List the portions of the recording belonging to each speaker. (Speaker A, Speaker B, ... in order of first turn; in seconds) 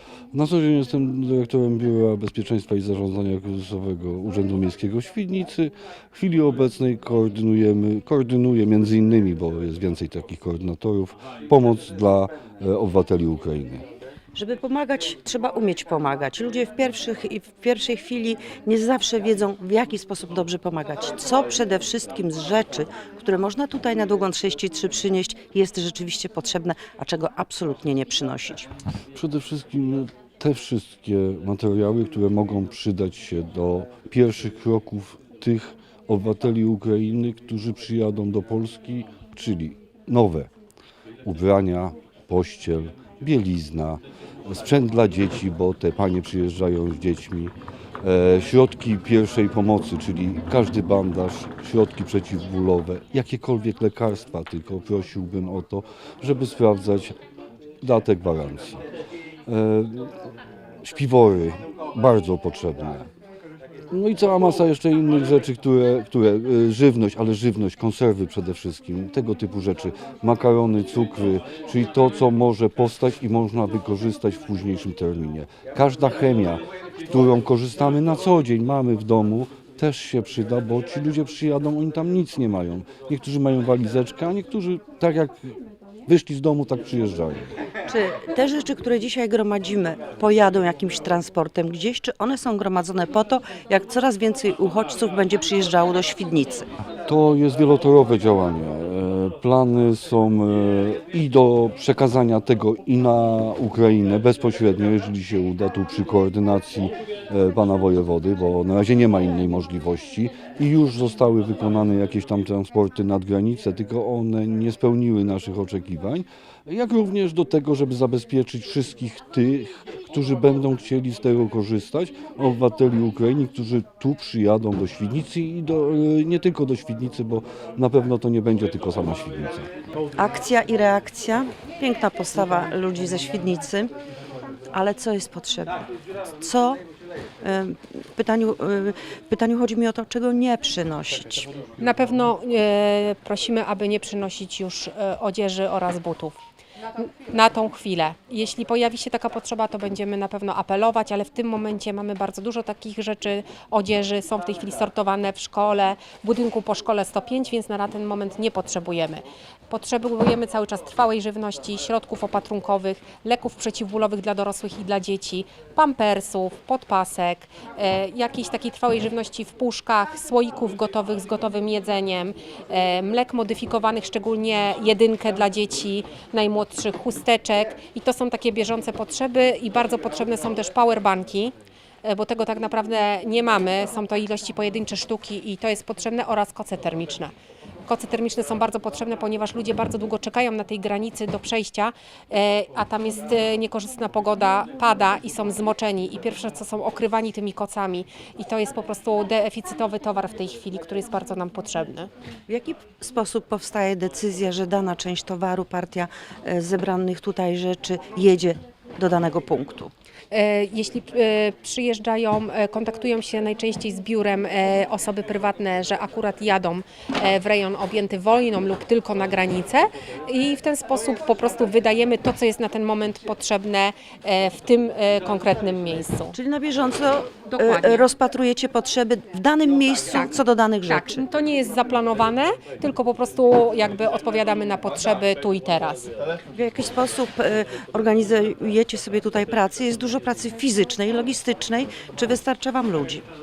Speaker A: 0.3-13.8, 29.1-40.5, 41.2-57.1, 57.8-58.8, 59.5-60.1, 60.8-63.1, 63.9-87.5, 97.0-129.7
Speaker B: 14.3-28.7, 87.9-96.7, 130.2-133.9, 134.7-135.8, 136.4-136.8, 137.4-141.5, 202.5-209.9, 226.3-231.2, 236.5-243.2
Speaker C: 141.8-146.4, 147.0-187.3, 187.9-202.1, 210.3-226.3, 227.4-228.1, 230.8-236.1